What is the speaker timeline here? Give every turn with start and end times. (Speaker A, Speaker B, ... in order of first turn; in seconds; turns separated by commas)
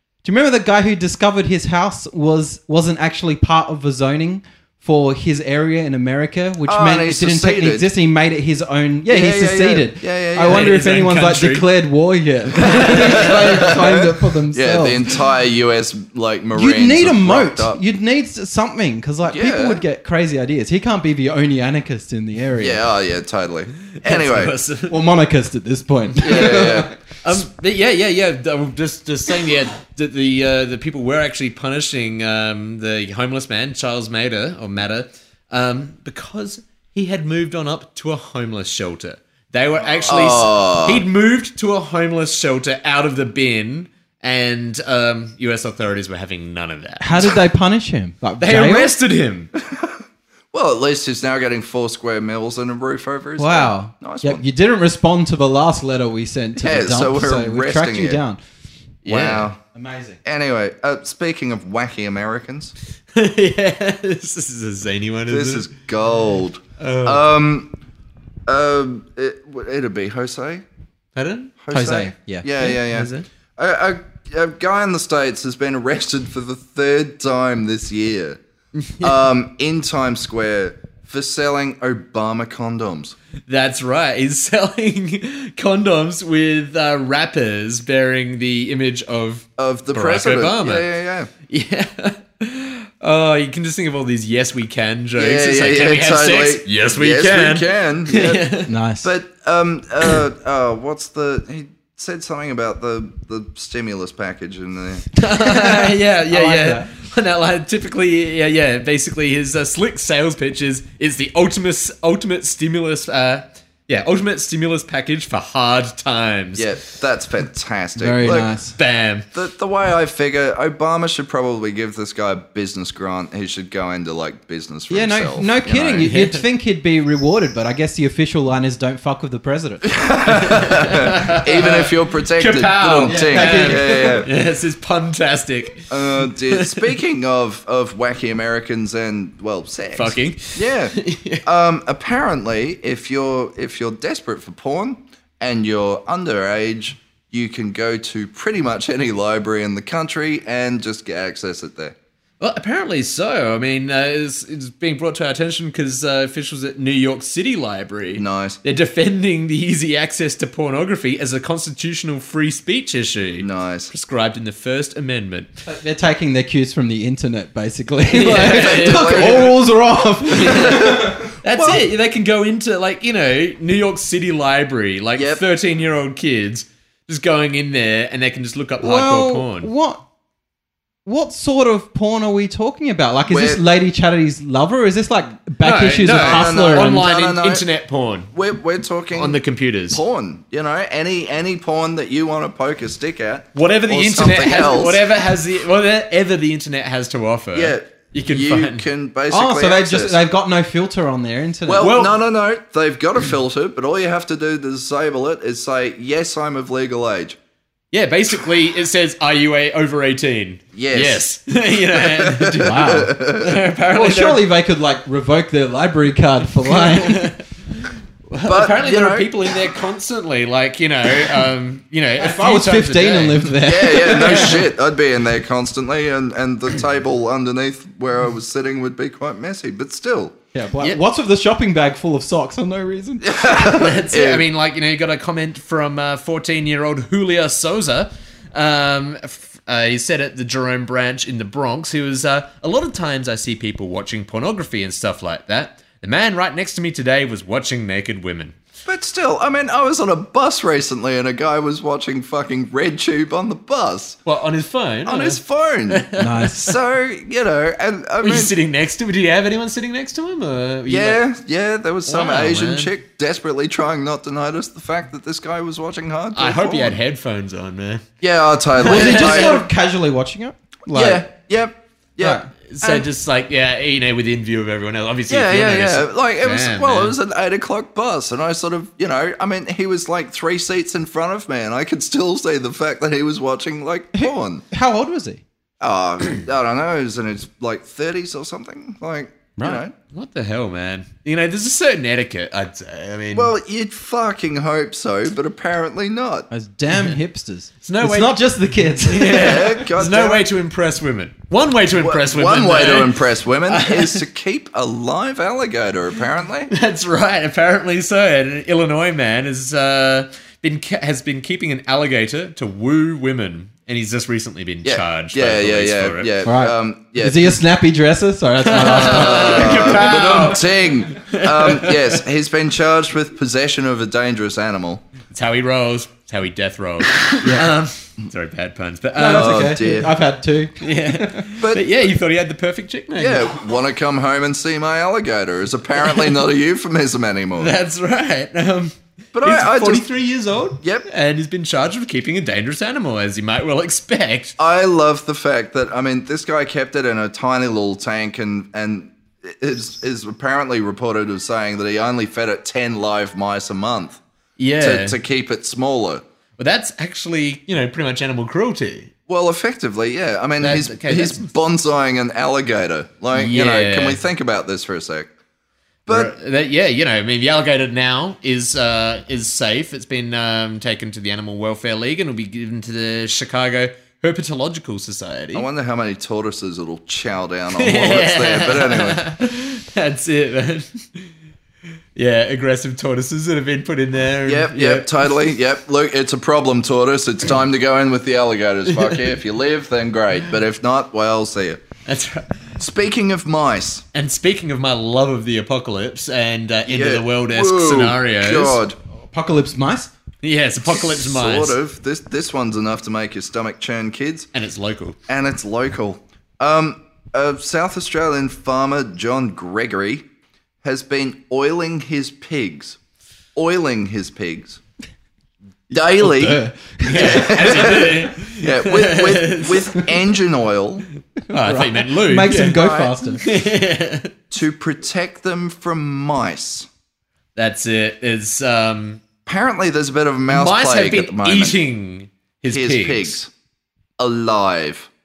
Speaker A: 0.2-15.1, Speaker B: 6.7-7.9, Speaker B: 9.1-10.7, Speaker C: 10.5-11.7, Speaker B: 12.6-17.8, Speaker A: 16.5-22.8, Speaker B: 19.3-19.8, Speaker B: 22.6-24.6, Speaker C: 23.9-25.0, Speaker A: 24.9-26.9, Speaker B: 26.2-26.9, Speaker C: 26.2-26.7, Speaker C: 27.2-47.4, Speaker B: 40.0-41.1, Speaker A: 47.0-48.9, Speaker C: 48.4-49.5, Speaker B: 49.5-50.0, Speaker B: 50.5-54.4, Speaker A: 53.4-58.4, Speaker B: 56.6-58.2, Speaker C: 59.0-59.5, Speaker B: 59.1-59.6, Speaker A: 59.7-60.2, Speaker B: 60.2-62.7, Speaker C: 63.1-65.7, Speaker B: 65.3-67.7, Speaker C: 66.8-67.2, Speaker B: 68.5-70.7, Speaker C: 71.2-71.5, Speaker B: 71.6-78.4, Speaker A: 71.7-73.2, Speaker C: 78.8-79.1, Speaker B: 79.0-83.2, Speaker C: 83.5-90.9, Speaker B: 89.6-91.3, Speaker C: 91.5-98.7, Speaker B: 95.2-105.1, Speaker A: 98.7-99.1, Speaker C: 105.2-116.7, Speaker A: 105.3-106.9, Speaker B: 116.6-118.5, Speaker A: 118.0-118.8, Speaker C: 118.3-119.3, Speaker B: 119.3-126.1, Speaker A: 124.9-129.9, Speaker C: 126.0-126.4, Speaker B: 129.8-134.3, Speaker C: 130.5-136.9, Speaker A: 133.0-134.2, Speaker B: 135.9-151.9, Speaker C: 139.9-141.4, Speaker C: 152.4-165.6, Speaker B: 158.2-158.6, Speaker B: 163.4-163.9, Speaker A: 165.7-171.4, Speaker C: 168.1-169.6, Speaker B: 168.4-169.6, Speaker C: 170.2-179.7, Speaker B: 170.6-171.9, Speaker B: 175.2-175.4, Speaker A: 178.8-180.0, Speaker A: 181.1-187.0, Speaker B: 183.3-183.6, Speaker C: 185.6-188.3, Speaker B: 186.0-187.7, Speaker B: 188.3-189.4, Speaker C: 189.1-190.0, Speaker B: 189.9-195.1, Speaker C: 193.6-198.9, Speaker B: 197.5-200.2, Speaker A: 199.3-201.9, Speaker B: 201.7-207.4, Speaker C: 201.8-202.2, Speaker C: 207.9-214.4, Speaker B: 210.7-211.2, Speaker B: 211.9-213.6, Speaker A: 212.6-213.1, Speaker A: 213.9-217.3, Speaker C: 216.7-224.7, Speaker B: 218.4-219.3, Speaker A: 222.2-224.6, Speaker B: 223.7-230.3, Speaker A: 230.5-233.6, Speaker B: 233.2-234.5, Speaker C: 233.6-248.6, Speaker B: 248.9-254.2, Speaker C: 254.3-256.7, Speaker B: 255.1-256.1, Speaker A: 256.2-256.7, Speaker B: 256.6-258.5, Speaker C: 258.2-261.2, Speaker B: 260.9-267.0, Speaker C: 262.1-262.9, Speaker C: 266.4-268.0, Speaker B: 268.2-269.6, Speaker C: 268.8-269.6, Speaker A: 268.8-271.3, Speaker B: 270.9-273.1, Speaker A: 272.2-272.5, Speaker C: 272.7-277.2, Speaker B: 275.3-284.6, Speaker A: 284.1-285.4, Speaker B: 285.8-289.9, Speaker A: 289.6-289.8, Speaker C: 290.1-293.5, Speaker B: 293.3-296.5, Speaker A: 296.5-299.7, Speaker C: 297.8-304.2, Speaker B: 299.3-300.5, Speaker B: 301.9-306.7, Speaker C: 306.7-316.3, Speaker B: 314.8-317.6, Speaker A: 316.4-320.3, Speaker C: 318.6-322.2, Speaker B: 318.8-325.0, Speaker C: 325.3-329.8, Speaker A: 327.4-327.7, Speaker A: 329.2-331.4, Speaker B: 329.3-330.1, Speaker C: 330.8-333.6, Speaker B: 331.6-331.9, Speaker B: 333.2-337.7, Speaker C: 336.0-336.4, Speaker C: 337.6-344.6, Speaker B: 339.3-340.1, Speaker B: 340.8-341.1, Speaker B: 344.6-354.2, Speaker C: 354.6-355.2, Speaker B: 354.8-356.2, Speaker C: 356.6-359.1, Speaker B: 359.3-365.3, Speaker C: 360.6-361.5, Speaker C: 363.3-364.2, Speaker B: 366.1-366.3, Speaker C: 366.1-375.7, Speaker B: 375.5-379.3, Speaker C: 377.8-381.3, Speaker C: 382.2-385.1, Speaker B: 384.5-391.8, Speaker C: 392.1-392.7, Speaker B: 392.8-394.1, Speaker C: 394.1-398.8, Speaker B: 396.9-399.0, Speaker A: 399.3-400.1, Speaker C: 400.4-401.8, Speaker B: 400.8-404.5, Speaker C: 404.5-405.2, Speaker B: 405.3-410.3, Speaker B: 410.8-413.0, Speaker B: 413.6-414.8, Speaker B: 415.9-416.6, Speaker A: 416.1-417.9, Speaker C: 417.0-420.2, Speaker B: 417.1-421.1, Speaker C: 421.5-422.8, Speaker A: 421.5-423.4, Speaker B: 422.6-423.1, Speaker C: 423.4-424.3, Speaker B: 424.5-426.9, Speaker C: 427.6-429.2, Speaker B: 429.5-431.8, Speaker C: 430.5-433.4, Speaker B: 432.7-433.5, Speaker B: 434.2-435.1